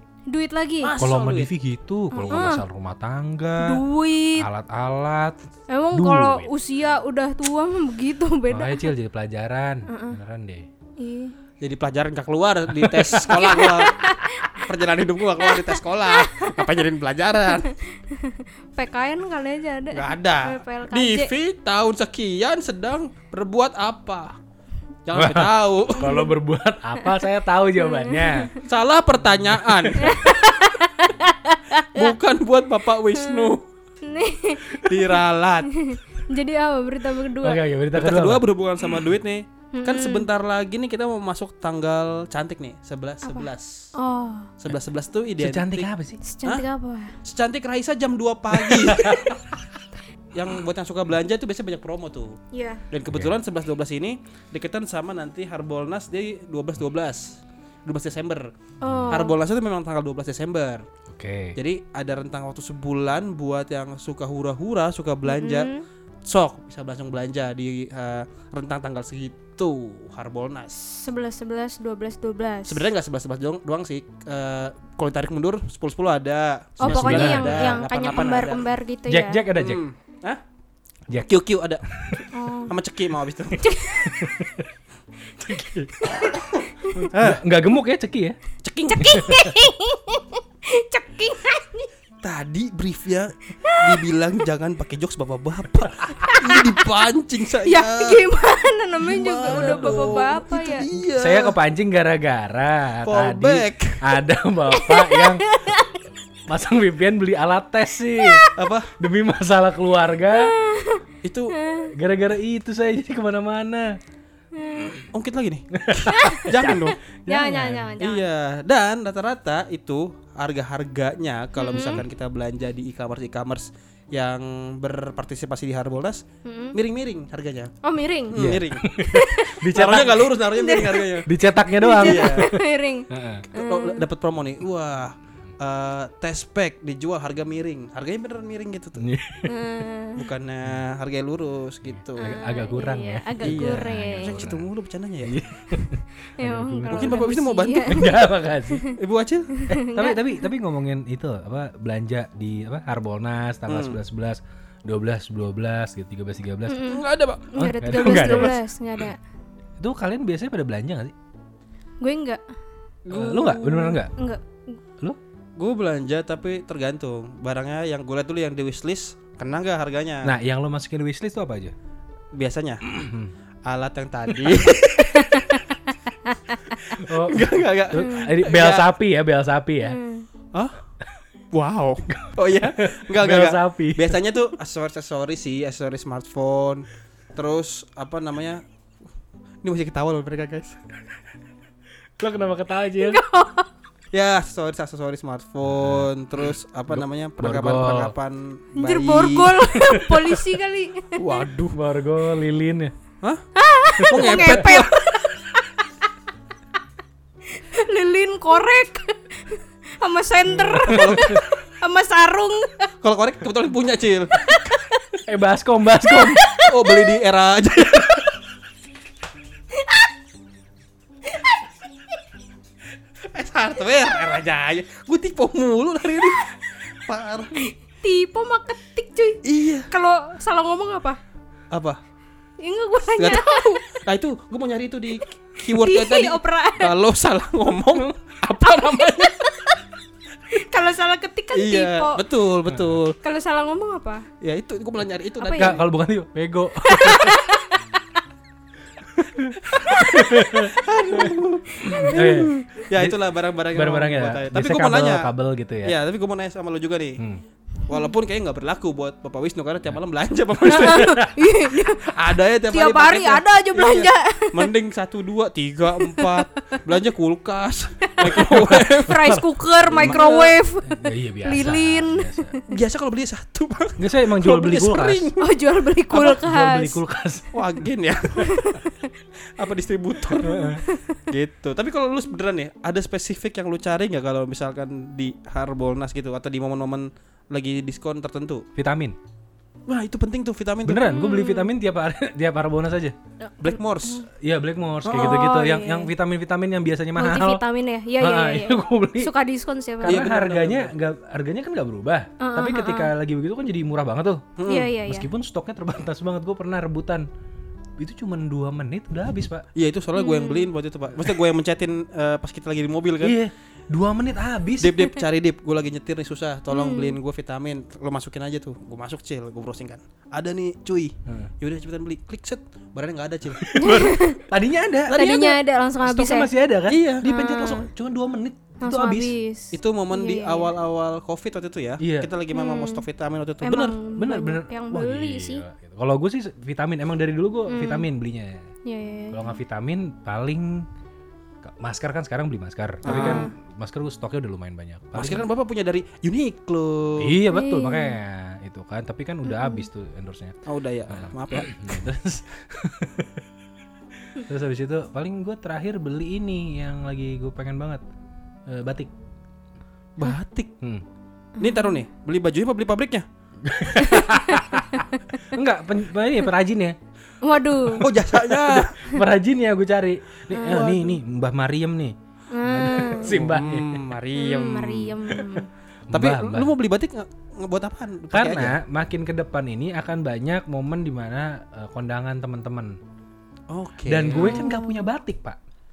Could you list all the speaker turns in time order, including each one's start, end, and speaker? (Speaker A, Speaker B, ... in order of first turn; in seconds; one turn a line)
Speaker A: 0.3-1.0
Speaker B: 0.8-1.5
Speaker C: 1.0-3.8
Speaker A: 2.1-2.6
Speaker A: 3.6-4.5
Speaker C: 4.4-5.4
Speaker A: 5.7-8.9
Speaker C: 5.9-6.5
Speaker C: 8.5-10.7
Speaker A: 9.9-10.2
Speaker A: 11.0-11.3
Speaker B: 11.6-14.0
Speaker C: 12.7-13.3
Speaker A: 13.2-14.6
Speaker B: 14.6-17.7
Speaker A: 15.4-16.6
Speaker A: 17.5-21.3
Speaker B: 19.9-24.3
Speaker B: 25.1-26.2
Speaker C: 25.1-28.5
Speaker A: 26.0-26.3
Speaker A: 27.8-28.6
Speaker B: 28.6-30.4
Speaker C: 29.6-30.0
Speaker A: 30.0-32.1
Speaker B: 31.9-33.6
Speaker A: 33.1-37.6
Speaker B: 34.8-35.8
Speaker C: 37.4-38.5
Speaker B: 37.9-43.9
Speaker A: 39.7-40.3
Speaker A: 43.2-44.5
Speaker B: 44.6-45.9
Speaker C: 45.4-46.2
Speaker A: 46.2-47.1
Speaker B: 47.2-49.4
Speaker C: 48.6-49.5
Speaker B: 50.3-52.4
Speaker A: 52.5-52.8
Speaker B: 52.9-58.5
Speaker C: 53.1-53.3
Speaker A: 58.8-59.4
Speaker C: 58.8-59.3
Speaker B: 59.1-60.8
Speaker C: 61.1-61.6
Speaker B: 61.5-65.7
Speaker A: 65.3-65.8
Speaker B: 66.2-71.1
Speaker A: 71.0-72.9
Speaker B: 72.7-78.7
Speaker A: 76.8-79.5
Speaker C: 76.8-77.8
Speaker C: 79.1-79.8
Speaker B: 79.5-80.4
Speaker B: 81.1-83.7
Speaker C: 81.9-82.2
Speaker A: 82.3-82.7
Speaker A: 83.6-84.1
Speaker C: 84.0-84.7
Speaker C: 85.4-85.9
Speaker B: 85.4-86.4
Speaker C: 86.9-88.4
Speaker B: 87.0-87.4
Speaker B: 88.6-89.3
Speaker A: 88.9-91.9
Speaker C: 89.0-89.5
Speaker B: 92.2-98.3
Speaker A: 93.6-94.0
Speaker A: 96.2-96.8
Speaker A: 97.6-100.9
Speaker B: 99.0-101.5
Speaker C: 99.5-100.2
Speaker C: 101.2-105.4
Speaker B: 103.0-104.0
Speaker A: 104.7-106.0
Speaker C: 106.5-108.5
Speaker A: 108.2-108.5
Speaker B: 108.5-108.9
Speaker C: 109.0-110.5
Speaker A: 110.3-111.9
Speaker B: 111.2-111.5
Speaker C: 111.9-114.0
Speaker A: 114.5-115.0
Speaker B: 115.1-117.0
Speaker C: 115.7-117.9
Speaker A: 116.1-118.2
Speaker B: 118.0-127.7
Speaker A: 121.6-122.0
Speaker A: 126.4-126.8
Speaker A: 127.8-128.4
Speaker B: 128.3-128.9
Speaker C: 128.3-130.3
Speaker A: 129.0-134.1
Speaker B: 129.6-131.3
Speaker C: 131.2-133.5
Speaker B: 131.8-132.5
Speaker B: 133.5-139.1
Speaker C: 139.0-139.7
Speaker A: 139.4-140.2
Speaker B: 140.2-142.3
Speaker C: 142.0-144.7
Speaker A: 142.2-144.4
Speaker B: 143.4-145.4
Speaker C: 145.2-147.3
Speaker A: 146.4-149.0
Speaker B: 146.9-148.2
Speaker C: 147.8-148.9
Speaker B: 148.9-149.5
Speaker A: 149.5-150.4
Speaker C: 149.7-156.9
Speaker B: 153.7-154.0
Speaker A: 156.7-159.2
Speaker B: 156.8-158.6
Speaker C: 157.6-158.6
Speaker C: 159.8-161.1
Speaker A: 162.0-162.4
Speaker B: 163.1-163.8
Speaker C: 163.1-164.1
Speaker A: 163.3-164.8
Speaker B: 165.6-170.3
Speaker C: 170.2-171.7
Speaker B: 172.3-172.8
Speaker C: 172.8-173.3
Speaker B: 173.6-175.4
Speaker A: 175.1-175.6
Speaker B: 176.9-178.9
Speaker C: 176.9-180.0
Speaker A: 177.9-178.3
Speaker A: 179.8-180.3
Speaker B: 180.5-180.8
Speaker B: 181.5-188.6
Speaker C: 182.1-184.2
Speaker B: 189.6-190.8
Speaker C: 192.2-193.2
Speaker A: 193.0-193.7
Speaker B: 194.1-199.7
Speaker C: 195.6-196.1
Speaker C: 196.9-198.1
Speaker A: 198.8-201.2
Speaker C: 199.7-200.3
Speaker B: 201.2-201.8
Speaker C: 201.7-202.9
Speaker B: 203.2-203.4
Speaker A: 203.6-205.5
Speaker C: 204.0-204.8
Speaker B: 204.1-205.0
Speaker A: 207.5-212.9
Speaker C: 210.5-211.4
Speaker B: 210.8-211.4
Speaker B: 213.0-214.8
Speaker A: 214.4-215.0
Speaker C: 215.2-216.5
Speaker A: 216.1-217.1
Speaker B: 216.6-218.2
Speaker A: 219.7-220.1
Speaker A: 221.3-221.6
Speaker B: 223.2-227.7
Speaker A: 228.0-231.2
Speaker B: 229.4-229.9
Speaker B: 231.7-232.0
Speaker A: 232.6-233.8
Speaker B: 233.1-239.6
Speaker A: 235.6-237.0
Speaker A: 238.8-239.7
Speaker A: 240.5-242.2
Speaker B: 241.5-243.2
Speaker A: 243.2-244.2
Speaker B: 244.4-245.8
Speaker A: 245.4-245.8
Speaker C: 245.6-247.4
Speaker A: 246.8-247.8
Speaker C: 249.1-251.3
Speaker B: 249.7-255.3
Speaker C: 251.8-256.0
Speaker B: 255.8-257.2
Speaker B: 257.9-261.2
Speaker A: 260.7-264.7
Speaker C: 260.7-261.3
Speaker B: 261.9-269.3
Speaker A: 266.0-266.8
Speaker A: 268.1-272.6
Speaker C: 268.2-270.2
Speaker B: 269.9-270.6
Speaker C: 270.8-272.6
Speaker B: 272.7-275.5
Speaker C: 274.0-275.3
Speaker A: 275.4-277.0
Speaker B: 276.1-276.4
Speaker C: 276.1-277.5
Speaker B: 277.5-278.7
Speaker A: 278.4-279.1
Speaker B: 279.5-280.7
Speaker C: 280.4-280.8
Speaker A: 280.5-281.2
Speaker B: 281.3-288.6
Speaker C: 288.8-289.2
Speaker B: 289.9-291.1
Speaker C: 290.8-293.1
Speaker A: 291.1-291.7
Speaker A: 293.4-294.2
Speaker B: 293.6-294.2
Speaker C: 294.4-297.6
Speaker B: 295.0-295.4
Speaker A: 295.1-296.1
Speaker A: 297.2-300.2
Speaker C: 298.2-299.3
Speaker C: 300.0-304.5
Speaker B: 300.0-300.9
Speaker A: 302.4-303.1
Speaker B: 304.6-304.9
Speaker A: 304.7-305.3
Speaker C: 305.0-307.3
Speaker C: 308.0-309.7
Speaker B: 309.7-313.4
Speaker A: 310.1-310.7
Speaker C: 313.2-315.0
Speaker B: 314.8-323.7
Speaker A: 316.7-317.2
Speaker C: 323.6-325.3
Speaker A: 323.8-324.4
Speaker B: 325.1-325.6
Speaker A: 325.1-326.5
Speaker C: 326.0-329.3
Speaker B: 326.9-327.2
Speaker A: 327.2-327.9
Speaker A: 328.8-330.7
Speaker B: 329.7-334.0
Speaker C: 332.0-332.3
Speaker A: 332.5-333.0
Speaker A: 333.6-335.6
Speaker C: 334.2-338.7
Speaker A: 337.7-338.1
Speaker A: 338.8-339.6
Speaker C: 339.3-340.9
Speaker C: 341.6-345.4
Speaker B: 343.0-343.5
Speaker A: 343.0-343.5
Speaker B: 345.1-347.4
Speaker C: 347.2-350.6
Speaker A: 347.5-348.2
Speaker A: 349.4-349.9
Speaker B: 350.6-352.0
Speaker C: 351.1-353.4
Speaker C: 354.3-358.0
Speaker C: 358.7-359.1
Speaker B: 360.2-360.7
Speaker A: 361.6-362.0
Speaker B: 361.6-363.2
Speaker C: 363.6-366.9
Speaker A: 364.0-365.4
Speaker A: 367.4-368.1
Speaker B: 368.0-368.9
Speaker C: 368.2-374.0
Speaker A: 370.5-370.9
Speaker B: 370.6-371.2
Speaker A: 372.5-373.4
Speaker B: 373.2-375.4
Speaker A: 374.4-375.7
Speaker C: 376.1-376.7
Speaker B: 376.1-378.8
Speaker C: 378.3-383.0
Speaker B: 383.7-384.6
Speaker C: 384.1-385.6
Speaker A: 384.3-385.1